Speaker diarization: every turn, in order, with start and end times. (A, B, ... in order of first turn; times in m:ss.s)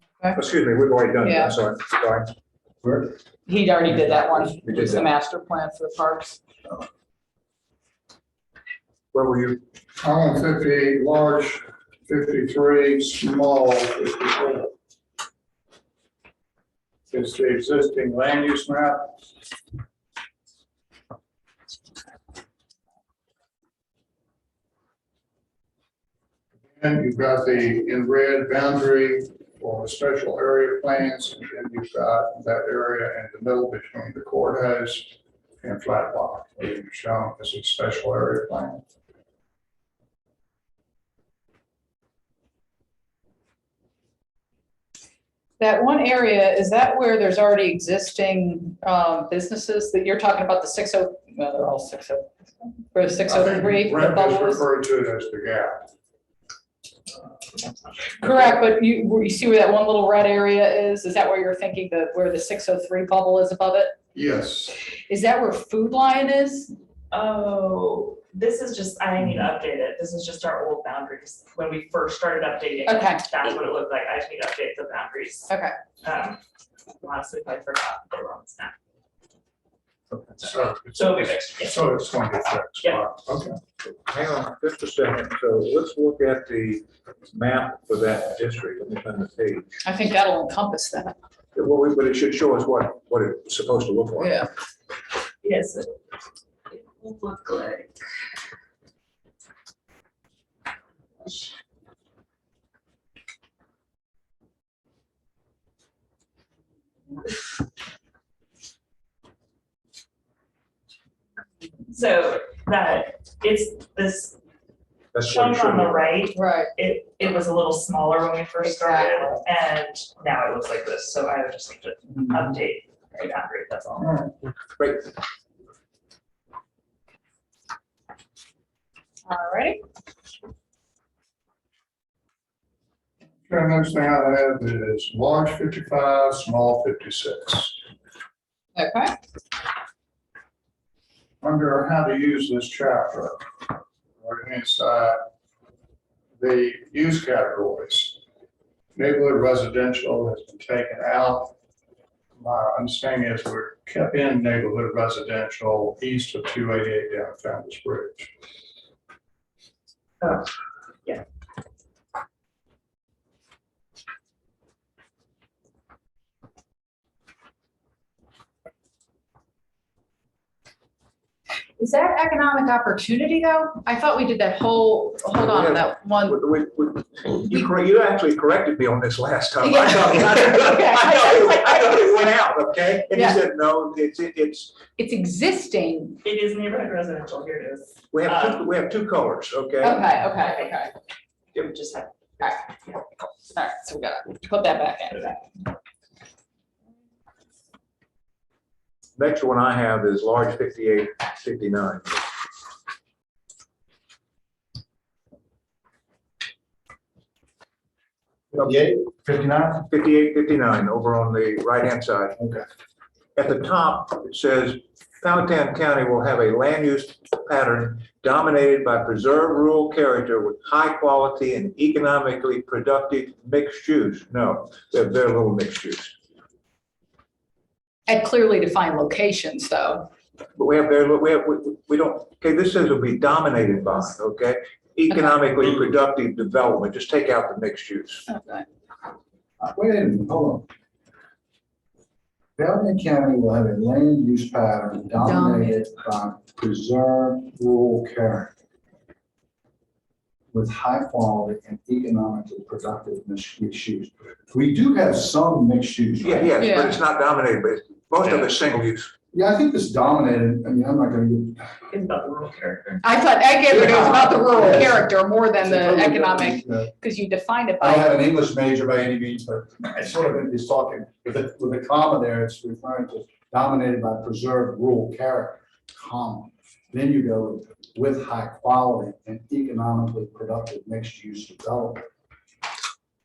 0:00.3-0:02.3 A
0:01.2-0:01.6 B
0:02.8-0:03.1 C
0:03.4-0:06.4 B
0:04.1-0:05.1 A
0:09.1-0:09.6 A
0:10.0-0:14.7 D
0:17.1-0:19.2 D
0:26.8-0:38.8 D
0:45.6-0:54.6 B
0:53.3-0:55.9 D
0:58.2-1:04.0 B
1:04.1-1:04.8 D
1:05.1-1:06.8 B
1:07.1-1:15.5 E
1:12.9-1:13.2 B
1:15.5-1:15.8 B
1:16.0-1:16.4 E
1:17.0-1:18.8 E
1:20.1-1:23.6 D
1:20.4-1:21.9 E
1:23.9-1:29.8 A
1:29.8-1:31.2 B
1:31.6-1:34.4 A
1:34.2-1:34.5 B
1:35.4-1:35.9 E
1:36.7-1:38.0 E
1:51.9-1:54.4 E
1:55.1-1:56.0 A
1:55.2-2:04.3 E
1:56.4-1:56.7 B
1:58.6-1:59.4 B
2:04.0-2:04.3 D
2:04.8-2:05.1 A
2:09.3-2:09.8 B
2:13.5-2:17.8 D
2:18.8-2:19.2 B
2:21.4-2:25.2 D
2:26.4-2:28.2 D
2:29.0-2:31.6 D
2:32.4-2:38.3 D
2:40.2-2:40.5 E
2:51.8-2:56.5 B
2:55.4-3:04.8 A
2:59.6-3:01.7 B
3:03.1-3:03.4 B
3:05.0-3:06.2 B
3:06.2-3:08.7 E
3:08.1-3:10.0 A
3:09.8-3:10.9 B
3:10.6-3:10.9 E
3:11.5-3:12.2 E
3:12.4-3:12.6 B
3:13.5-3:15.5 B
3:19.2-3:22.2 A
3:28.5-3:29.8 C
3:29.8-3:32.4 A
3:33.4-3:46.2 A
3:48.1-3:50.1 B
3:50.6-3:58.3 A
3:58.3-3:58.7 B
3:59.6-4:00.7 C
4:02.6-4:08.5 C
4:05.2-4:05.8 B
4:10.5-4:16.5 C
4:16.2-4:19.1 A
4:16.6-4:17.0 B
4:19.3-4:21.8 C
4:21.9-4:23.0 E
4:23.0-4:28.2 B
4:23.7-4:26.9 C
4:27.8-4:42.0 C